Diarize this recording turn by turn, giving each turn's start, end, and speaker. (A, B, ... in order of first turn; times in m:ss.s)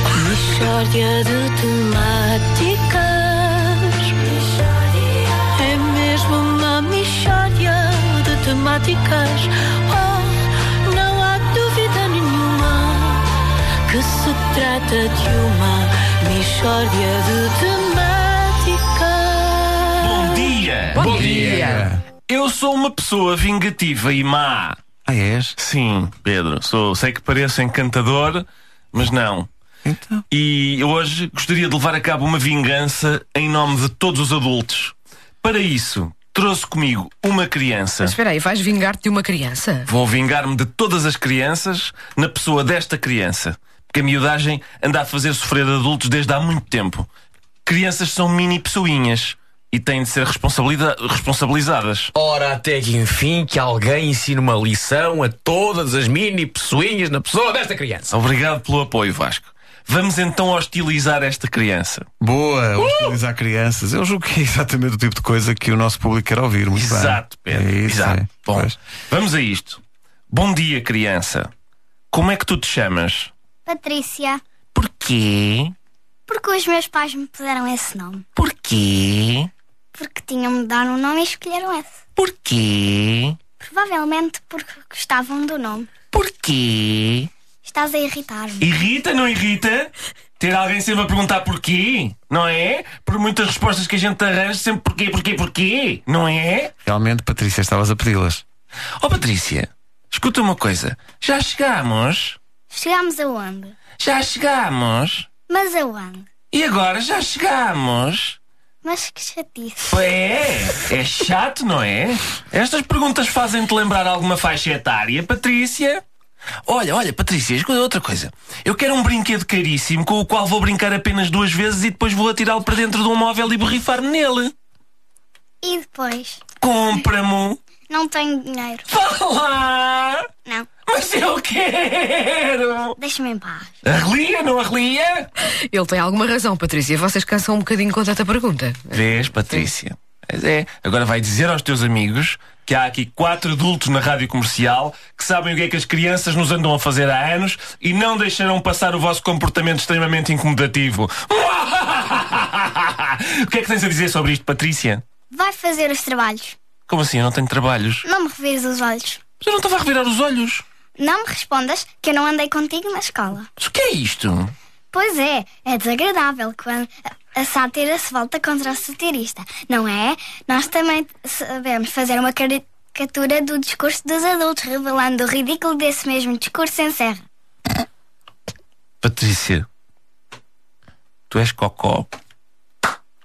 0:00.2-0:13.3 A
0:13.9-0:20.1 A
0:20.0-0:21.3 B
0:21.0-0:22.0 C
0:21.0-0:21.8 D
0:21.0-0:21.8 E
0:22.3-0:24.8 B
0:25.1-0:25.6 C
0:25.6-0:29.5 B
0:29.8-0:30.2 C
0:30.3-0:38.2 B
0:38.0-0:39.9 D
0:39.9-0:47.1 B
0:47.6-0:52.1 B
0:52.1-0:58.1 E
0:58.1-1:02.1 B
1:02.2-1:08.8 C
1:02.8-1:03.2 B
1:06.7-1:11.5 B
1:12.1-1:13.3 B
1:13.7-1:14.4 F
1:14.8-1:15.8 B
1:16.3-1:18.2 F
1:18.4-1:19.5 B
1:20.0-1:22.0 F
1:22.2-1:23.4 B
1:23.6-1:25.9 F
1:26.1-1:27.3 B
1:27.6-1:28.7 F
1:28.6-1:36.7 B
1:36.8-1:38.4 C
1:39.0-1:42.4 B
1:42.7-1:43.8 F
1:44.0-1:45.3 B
1:45.5-1:46.3 F
1:46.5-1:48.4 B
1:48.8-1:50.0 F
1:49.9-1:56.0 B
1:56.7-2:04.5 B
2:05.6-2:06.4 F
2:06.6-2:07.6 B
2:07.9-2:08.9 F
2:08.9-2:10.2 B
2:10.9-2:13.0 B
2:13.0-2:13.8 F
2:13.8-2:15.3 B
2:15.6-2:19.7 D
2:18.9-2:35.0 B
2:35.3-2:36.6 F
2:36.9-2:38.1 B
2:38.0-2:39.2 F
2:39.4-2:40.6 B
2:41.0-2:43.5 F
2:43.6-2:44.5 B
2:44.9-2:57.2 F
2:59.0-2:59.7 B
3:01.3-3:02.1 B